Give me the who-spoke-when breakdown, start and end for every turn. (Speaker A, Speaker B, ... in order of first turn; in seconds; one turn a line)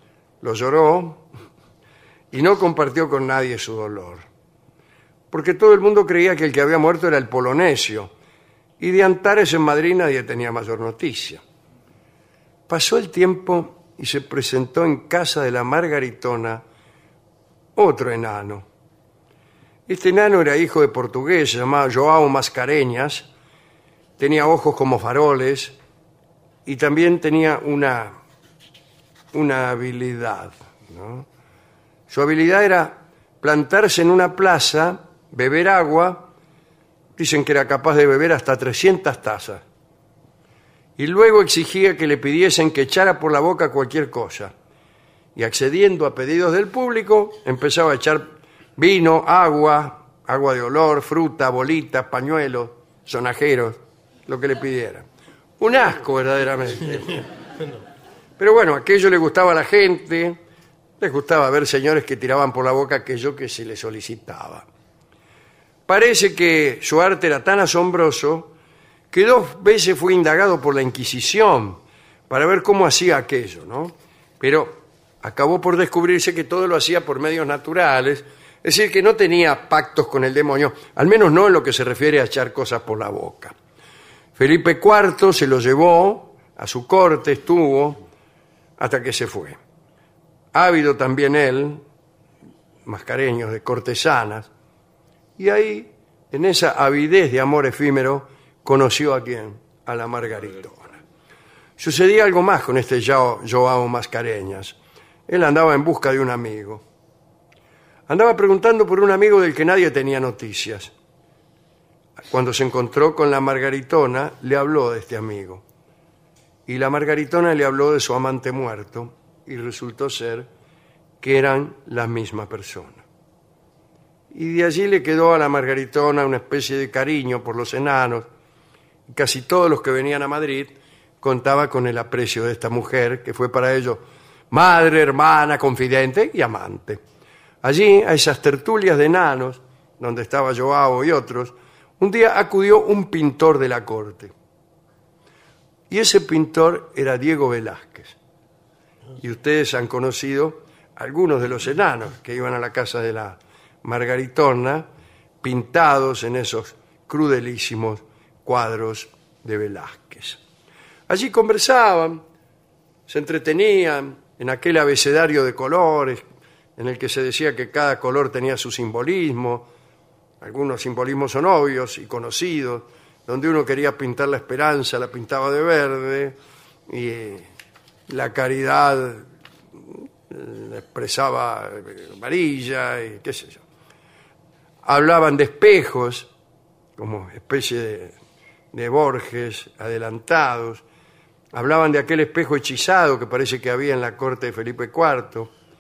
Speaker A: 0.4-1.2
Speaker A: 2.3-4.2
Speaker A: 5.3-8.1
Speaker A: 8.8-11.4
Speaker A: 12.7-16.6
Speaker A: 17.8-18.6
Speaker A: 19.9-23.3
Speaker A: 24.2-25.8
Speaker A: 26.7-28.2
Speaker A: 29.3-31.3
Speaker A: 32.1-36.3
Speaker A: 37.2-39.6
Speaker A: 41.0-44.5
Speaker A: 45.4-55.0
Speaker A: 55.6-57.2
Speaker A: 58.4-60.4
Speaker A: 61.0-64.7
Speaker A: 65.9-68.5
Speaker A: 69.1-83.5
Speaker A: 84.4-88.0
Speaker A: 88.8-89.6
Speaker A: 90.5-91.8
Speaker A: 92.9-94.5
Speaker A: 95.4-101.0
Speaker A: 101.8-104.8
Speaker A: 105.3-106.8
Speaker A: 108.1-110.9
Speaker A: 112.3-115.6
Speaker A: 116.7-120.5
Speaker A: 121.2-123.0
Speaker A: 124.3-128.3
Speaker A: 129.1-137.0
Speaker A: 137.6-144.3
Speaker A: 145.9-148.2
Speaker A: 149.2-154.9
Speaker A: 155.4-160.4
Speaker A: 161.1-162.2
Speaker A: 163.1-166.2
Speaker A: 166.8-169.7
Speaker A: 170.4-176.3
Speaker A: 176.9-177.5
Speaker A: 178.1-179.2
Speaker A: 180.3-183.6
Speaker A: 184.8-186.3
Speaker A: 187.0-188.2
Speaker A: 188.7-190.8
Speaker A: 191.5-195.5